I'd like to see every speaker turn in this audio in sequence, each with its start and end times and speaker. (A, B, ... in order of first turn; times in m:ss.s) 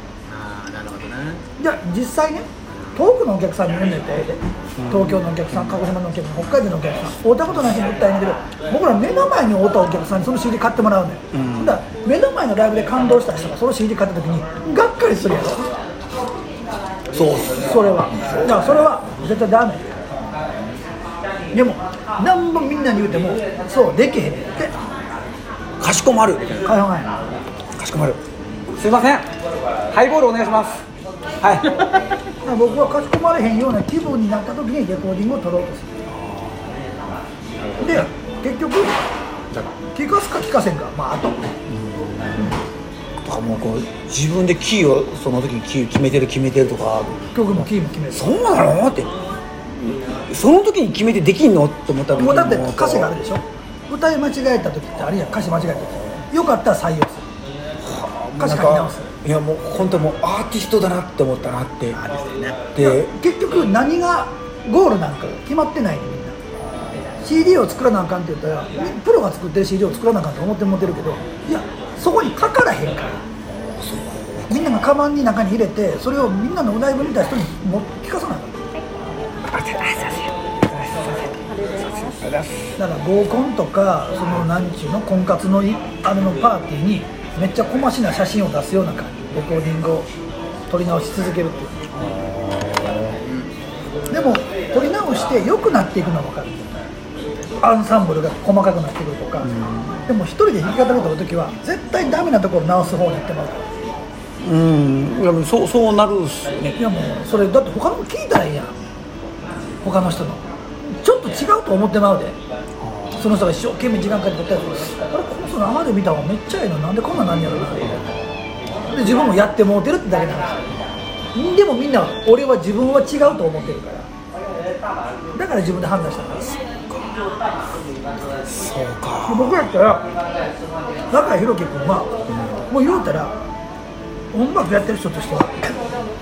0:00.3-0:01.4 A
0:01.6-0:15.7 B
0:04.8-0:05.8 C
0:11.3-0:11.8 C
0:17.1-0:18.7 C
0:17.6-0:19.8 B
0:21.5-0:24.7 B
0:25.8-0:26.6 C
0:26.6-0:27.1 B
0:27.7-0:28.2 C
0:28.8-0:29.3 C
0:29.9-0:30.8 C
0:31.4-0:31.7 C
0:32.4-0:35.9 B
0:36.1-0:36.7 C
0:37.8-0:38.0 C
0:37.8-0:39.0 B
0:39.9-0:41.4 B
0:41.7-0:42.6 C
0:43.2-0:47.2 C
0:47.3-0:48.4 B
0:48.1-0:49.1 C
0:49.7-0:53.1 C
0:52.1-0:57.2 B
0:57.8-1:02.0 C
0:58.4-0:59.1 B
1:01.9-1:02.6 A
1:02.7-1:03.1 C
1:02.8-1:06.4 B
1:07.2-1:13.2 B
1:13.8-1:14.7 C
1:14.5-1:18.5 B
1:19.5-1:22.8 C
1:22.8-1:30.1 B
1:30.7-1:31.8 B
1:32.0-1:33.2 C
1:33.1-1:33.5 A
1:34.1-1:36.9 B
1:37.6-1:39.5 B
1:39.4-1:40.1 C
1:40.1-1:43.6 B
1:44.4-1:46.8 C
1:46.8-1:48.7 B
1:49.8-1:50.4 B
1:51.0-1:52.4 B
1:52.8-1:53.3 C
1:53.2-1:58.0 B
1:57.2-1:58.1 C
1:58.9-2:00.6 B
2:01.3-2:04.0 B
2:05.3-2:06.6 B
2:08.4-2:09.7 C
2:09.3-2:10.1 B
2:11.1-2:12.1 B
2:12.3-2:12.6 C
2:12.7-2:13.3 B
2:14.3-2:15.8 B